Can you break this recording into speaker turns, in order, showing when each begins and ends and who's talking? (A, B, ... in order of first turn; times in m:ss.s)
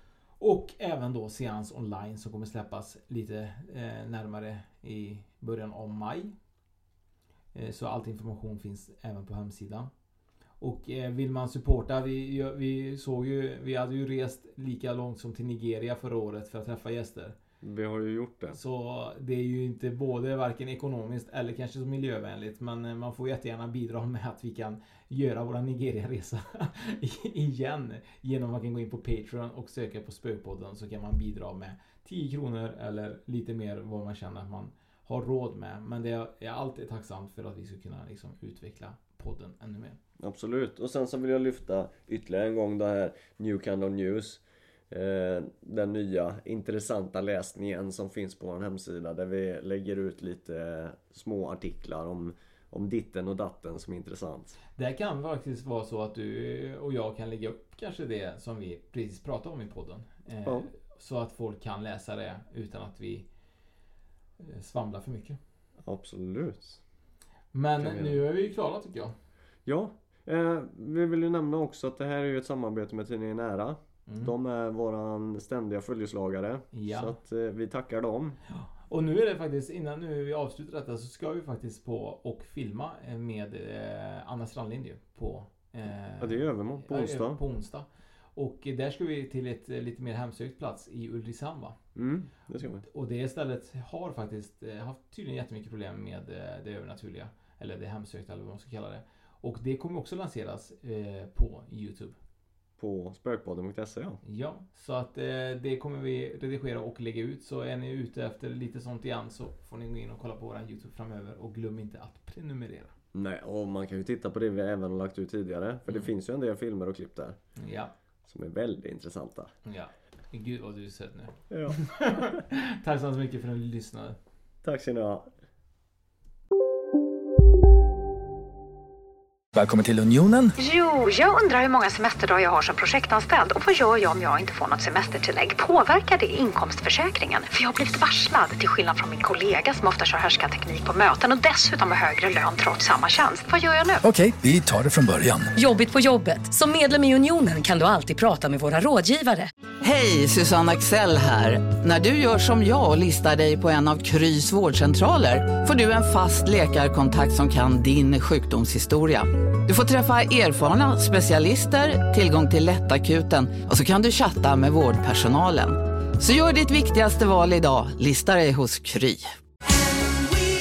0:00.4-0:06.3 A
0:07.5-0:09.9 A
0:10.6-0:17.4 A
0:17.6-0:18.6 B
0:18.5-0:40.0 A
0:40.2-0:54.6 B
0:54.8-1:03.3 A
1:00.4-1:00.7 B
1:04.4-1:05.4 A
1:05.8-1:06.8 B
1:07.5-1:09.1 A
1:07.8-1:08.2 B
1:09.6-1:18.4 B
1:14.1-1:14.3 A
1:16.7-1:17.2 A
1:18.5-1:31.8 A
1:26.2-1:27.4 B
1:31.9-1:32.8 B
1:32.9-1:42.2 A
1:42.8-1:44.2 B
1:44.2-1:52.9 A
1:53.1-1:57.4 B
1:57.6-1:57.9 A
1:58.2-1:59.5 B
1:59.6-2:04.2 A
2:01.5-2:02.3 B
2:04.6-2:05.3 B
2:09.5-2:10.6 C
2:10.6-2:24.0 D
2:24.0-2:25.5 C
2:25.6-2:29.5 E
2:29.8-2:49.4 F